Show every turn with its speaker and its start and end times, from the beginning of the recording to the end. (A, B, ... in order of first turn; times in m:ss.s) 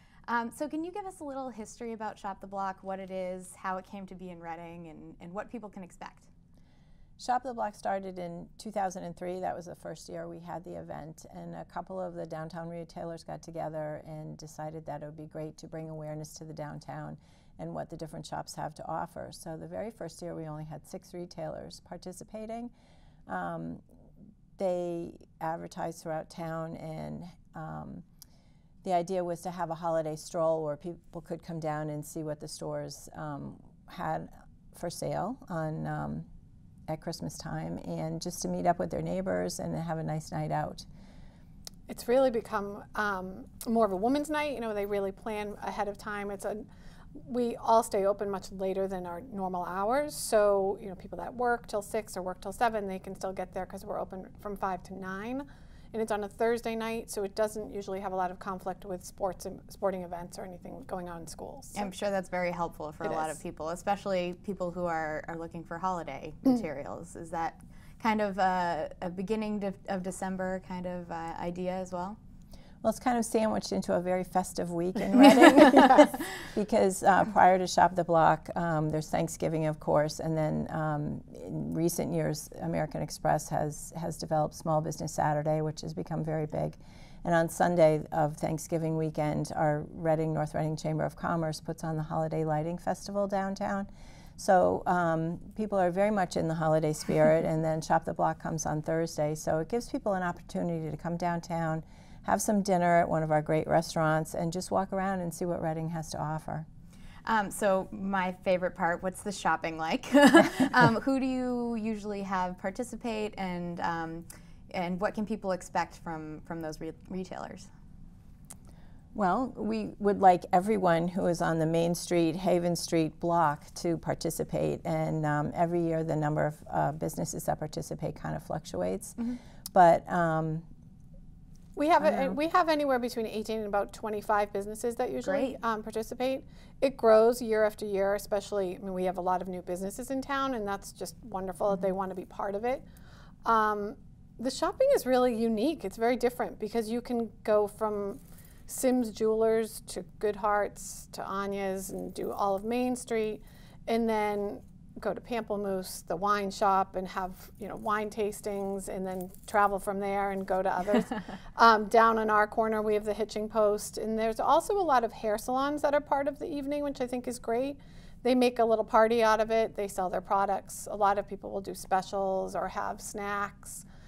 0:00.3-0:06.3 A
0:07.2-0:22.7 B
0:23.3-0:23.8 B
0:24.6-0:28.0 B
0:28.8-0:36.3 B
0:36.9-0:40.9 B
0:41.9-0:46.7 C
0:47.2-1:01.9 C
1:01.7-1:12.2 A
1:03.0-1:03.4 C
1:12.8-1:46.7 B
1:47.2-1:57.7 A
1:59.1-2:10.7 B
2:11.8-2:22.8 C
2:15.2-2:15.6 A
2:23.4-2:53.8 C